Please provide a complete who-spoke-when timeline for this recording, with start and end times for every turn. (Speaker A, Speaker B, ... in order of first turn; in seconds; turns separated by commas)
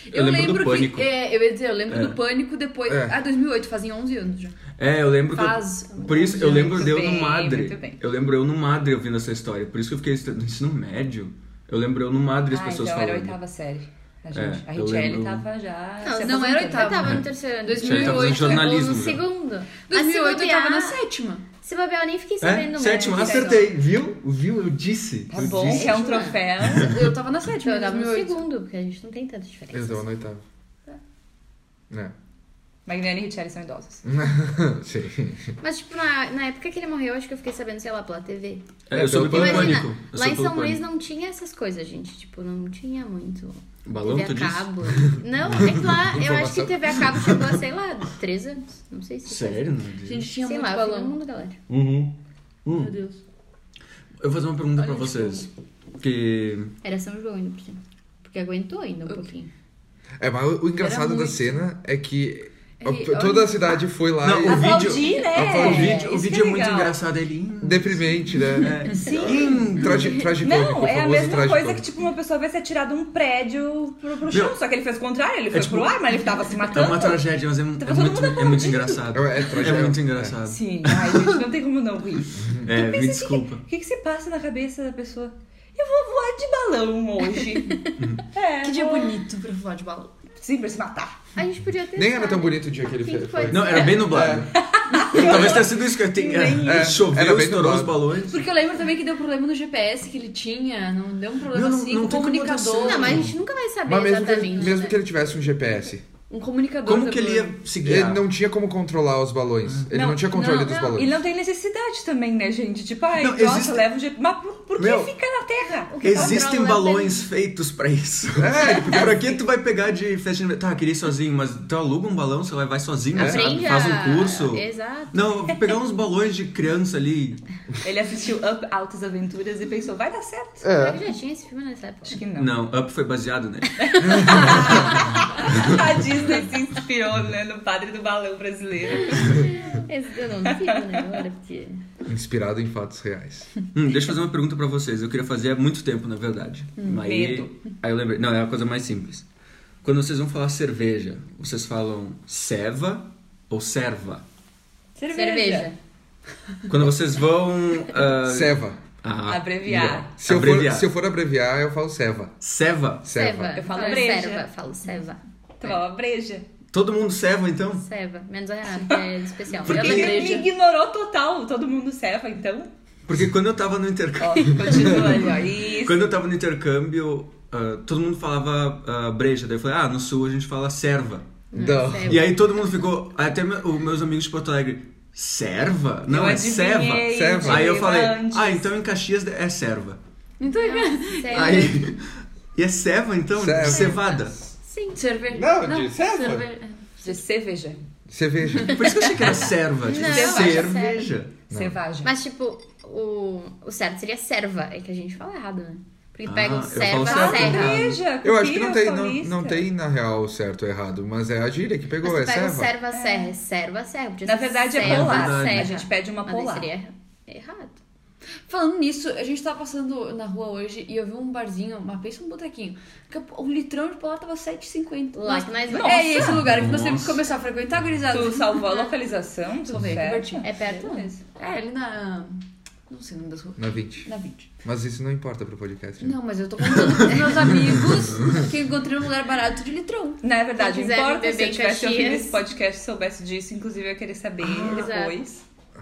Speaker A: 0.1-4.6, Speaker B: 0.1-1.1, Speaker B: 1.9-2.2, Speaker C: 2.9-3.1, Speaker B: 4.8-13.3, Speaker A: 5.3-7.0, Speaker D: 6.4-8.0, Speaker D: 12.5-17.0, Speaker B: 14.3-15.4, Speaker E: 16.0-21.0, Speaker A: 16.2-18.7, Speaker B: 17.8-19.2, Speaker A: 19.9-21.4, Speaker E: 21.6-23.7, Speaker B: 22.4-27.0, Speaker D: 22.9-23.7, Speaker D: 25.3-27.0, Speaker A: 25.8-28.4, Speaker E: 25.9-26.3, Speaker E: 27.6-30.0, Speaker C: 29.7-30.4, Speaker D: 32.9-34.0, Speaker C: 34.0-35.5, Speaker E: 35.6-38.7, Speaker B: 38.9-40.8, Speaker C: 38.9-39.9, Speaker E: 39.2-49.7, Speaker B: 43.8-45.1, Speaker C: 45.5-47.3, Speaker B: 49.2-50.3, Speaker A: 50.0-51.2, Speaker E: 50.4-51.6, Speaker B: 51.7-52.1, Speaker B: 52.6-52.9, Speaker A: 52.7-53.2, Speaker B: 54.2-56.7, Speaker E: 54.8-55.5, Speaker E: 56.8-59.5, Speaker C: 60.2-66.0, Speaker A: 60.8-61.5, Speaker E: 62.8-63.7, Speaker B: 64.2-70.3, Speaker D: 64.4-67.0, Speaker E: 65.6-66.1, Speaker C: 67.6-68.8, Speaker D: 68.9-69.7, Speaker C: 69.7-71.8, Speaker D: 70.3-77.3, Speaker B: 74.3-74.6, Speaker B: 75.5-75.9, Speaker B: 76.6-81.4, Speaker D: 77.8-79.0, Speaker C: 79.1-80.3, Speaker D: 80.5-87.8, Speaker C: 82.4-82.7, Speaker B: 82.6-83.6, Speaker B: 88.0-88.2, Speaker D: 88.3-89.2, Speaker A: 88.6-90.1, Speaker D: 90.4-91.2, Speaker E: 91.3-94.0, Speaker C: 91.9-94.5, Speaker B: 93.5-98.4, Speaker D: 94.5-97.0, Speaker C: 96.6-98.0, Speaker A: 98.3-103.2, Speaker B: 101.5-103.3, Speaker E: 102.8-105.0, Speaker C: 103.8-106.0, Speaker A: 106.3-107.6, Speaker B: 106.8-108.2, Speaker C: 107.8-111.2, Speaker D: 109.9-116.4, Speaker E: 110.6-111.0, Speaker B: 113.2-113.8, Speaker B: 114.8-115.1, Speaker E: 115.9-117.2, Speaker B: 116.0-127.4, Speaker C: 118.3-119.2, Speaker C: 123.1-123.5, Speaker E: 123.1-125.2, Speaker D: 127.8-130.6, Speaker C: 130.6-131.0, Speaker E: 130.7-132.2, Speaker D: 132.1-132.5, Speaker B: 132.3-135.8, Speaker D: 133.8-139.5, Speaker E: 133.9-135.0, Speaker E: 139.1-141.8, Speaker D: 140.4-141.2, Speaker C: 142.1-143.5, Speaker B: 143.7-149.2, Speaker A: 146.8-147.0, Speaker D: 147.0-147.5, Speaker B: 149.8-154.2, Speaker A: 155.0-155.6, Speaker D: 155.1-155.6, Speaker E: 155.1-155.8, Speaker B: 156.7-160.9, Speaker C: 158.2-158.8, Speaker D: 159.3-160.1, Speaker C: 160.2-162.3, Speaker B: 162.4-163.1, Speaker C: 163.0-163.7, Speaker E: 163.1-165.2, Speaker D: 163.5-164.5, Speaker D: 165.6-166.4, Speaker B: 166.7-167.8, Speaker E: 167.8-170.4, Speaker D: 169.6-172.7, Speaker B: 169.7-170.2, Speaker A: 169.7-170.5, Speaker B: 173.1-181.2, Speaker D: 174.2-176.0, Speaker E: 181.5-182.3, Speaker C: 181.5-182.3, Speaker B: 182.0-190.0, Speaker D: 186.1-188.7, Speaker C: 187.1-187.7, Speaker A: 190.4-191.7, Speaker E: 190.5-191.8, Speaker B: 191.3-194.3, Speaker C: 193.3-194.1, Speaker E: 193.6-195.0, Speaker A: 194.9-196.9, Speaker C: 195.3-196.4, Speaker D: 197.0-197.8, Speaker C: 198.1-198.9, Speaker B: 198.6-201.4, Speaker E: 199.8-201.1, Speaker D: 199.9-200.7, Speaker C: 201.5-201.8, Speaker D: 201.5-202.1, Speaker E: 202.0-207.8, Speaker B: 206.2-208.0, Speaker D: 206.9-209.7, Speaker C: 208.2-212.7, Speaker E: 212.0-217.8, Speaker D: 212.9-213.3, Speaker D: 214.2-216.7, Speaker B: 214.8-215.8, Speaker A: 218.5-228.8, Speaker E: 225.1-226.4, Speaker D: 225.7-226.5, Speaker B: 226.3-227.2, Speaker D: 228.1-231.2, Speaker A: 229.7-230.5, Speaker E: 230.4-231.1, Speaker A: 231.2-234.5, Speaker C: 233.6-234.1, Speaker C: 234.6-236.2, Speaker A: 236.0-240.2, Speaker D: 240.2-245.4, Speaker E: 240.6-242.4, Speaker E: 244.4-245.2